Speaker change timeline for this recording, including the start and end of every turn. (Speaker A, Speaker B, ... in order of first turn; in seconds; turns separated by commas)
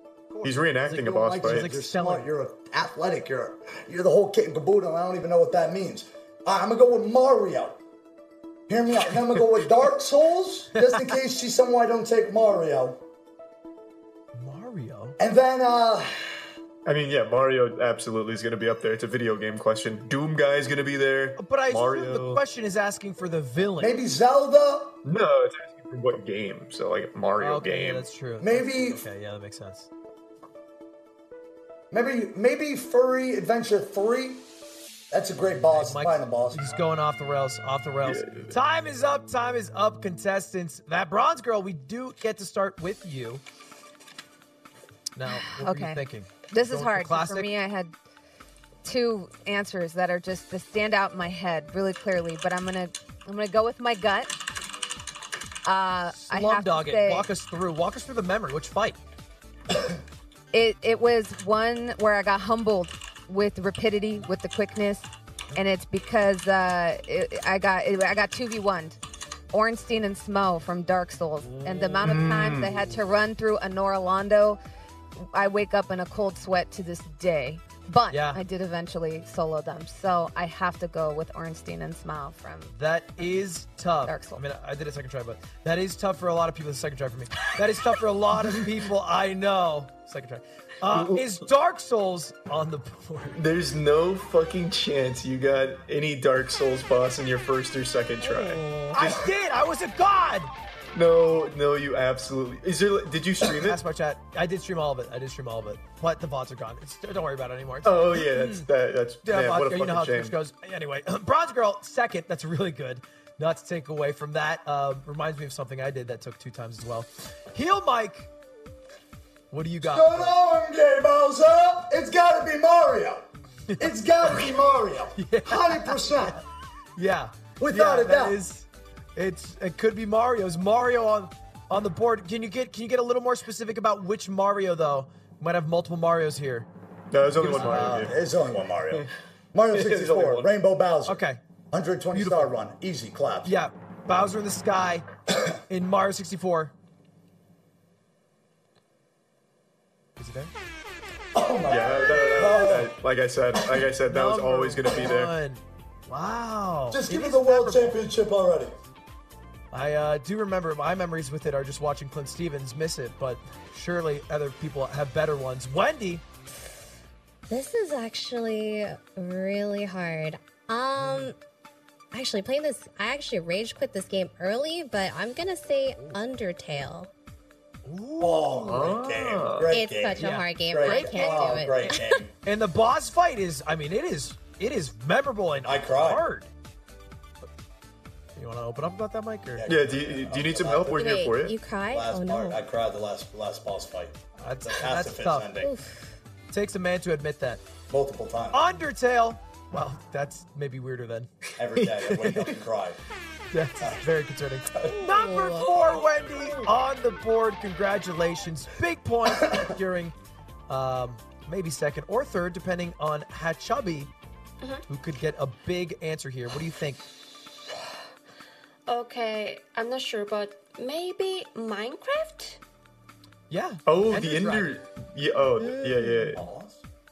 Speaker A: 0.3-2.3, Speaker B: 0.4-1.7, Speaker C: 0.8-7.8, Speaker C: 8.7-13.0, Speaker A: 10.7-11.0, Speaker A: 14.3-15.2, Speaker C: 15.2-16.4, Speaker B: 16.8-22.4, Speaker A: 21.4-23.9, Speaker C: 23.8-25.0, Speaker B: 25.0-28.1, Speaker A: 27.4-29.9, Speaker C: 28.4-29.0, Speaker C: 31.9-34.5, Speaker C: 35.1-36.8, Speaker A: 35.7-43.4, Speaker B: 38.0-38.6, Speaker A: 45.1-47.5, Speaker D: 45.3-47.9, Speaker D: 48.8-54.3, Speaker D: 55.6-57.3, Speaker A: 56.1-59.0, Speaker D: 60.5-69.0, Speaker D: 69.5-74.6, Speaker A: 71.5-72.7, Speaker B: 72.0-72.7, Speaker D: 75.2-83.3, Speaker A: 78.1-78.4, Speaker A: 82.7-93.4, Speaker D: 84.0-84.4, Speaker B: 90.9-91.4, Speaker B: 93.3-99.3, Speaker E: 98.2-98.9, Speaker A: 98.9-100.5, Speaker B: 100.9-103.8, Speaker A: 103.5-108.7, Speaker B: 107.8-110.3, Speaker A: 109.2-118.3, Speaker A: 119.5-120.3, Speaker C: 119.8-123.3, Speaker A: 123.7-124.5, Speaker C: 123.8-126.4, Speaker A: 125.2-126.4, Speaker A: 127.0-136.7, Speaker C: 127.6-128.4, Speaker B: 137.1-138.2, Speaker A: 137.3-138.1, Speaker C: 137.4-143.6, Speaker B: 139.7-140.5, Speaker A: 141.1-141.4, Speaker A: 142.1-142.5, Speaker A: 143.4-145.1, Speaker A: 145.7-146.7, Speaker A: 150.2-150.5, Speaker C: 151.3-152.9, Speaker B: 151.7-155.3, Speaker C: 153.6-153.8, Speaker A: 154.1-158.0, Speaker C: 156.9-158.7, Speaker A: 159.7-166.2, Speaker E: 167.5-171.3, Speaker A: 171.0-171.3, Speaker E: 172.1-177.1, Speaker A: 177.8-178.8, Speaker C: 178.2-182.3, Speaker B: 178.7-179.7, Speaker E: 179.7-182.2, Speaker A: 180.2-181.9, Speaker A: 182.4-186.5, Speaker C: 185.6-186.2, Speaker A: 188.3-189.7, Speaker C: 189.5-191.2, Speaker B: 189.6-191.6, Speaker E: 190.9-192.6, Speaker C: 191.9-195.7, Speaker A: 194.4-195.5, Speaker E: 195.6-196.1, Speaker A: 196.5-197.6, Speaker C: 197.9-198.6, Speaker A: 198.5-201.3, Speaker C: 201.6-203.0, Speaker A: 202.1-202.5, Speaker A: 203.5-210.1, Speaker E: 204.9-206.5, Speaker A: 210.7-214.1, Speaker A: 214.9-217.0, Speaker F: 218.9-222.6, Speaker A: 223.5-224.7, Speaker B: 223.8-226.4, Speaker E: 225.6-226.3, Speaker C: 226.3-226.8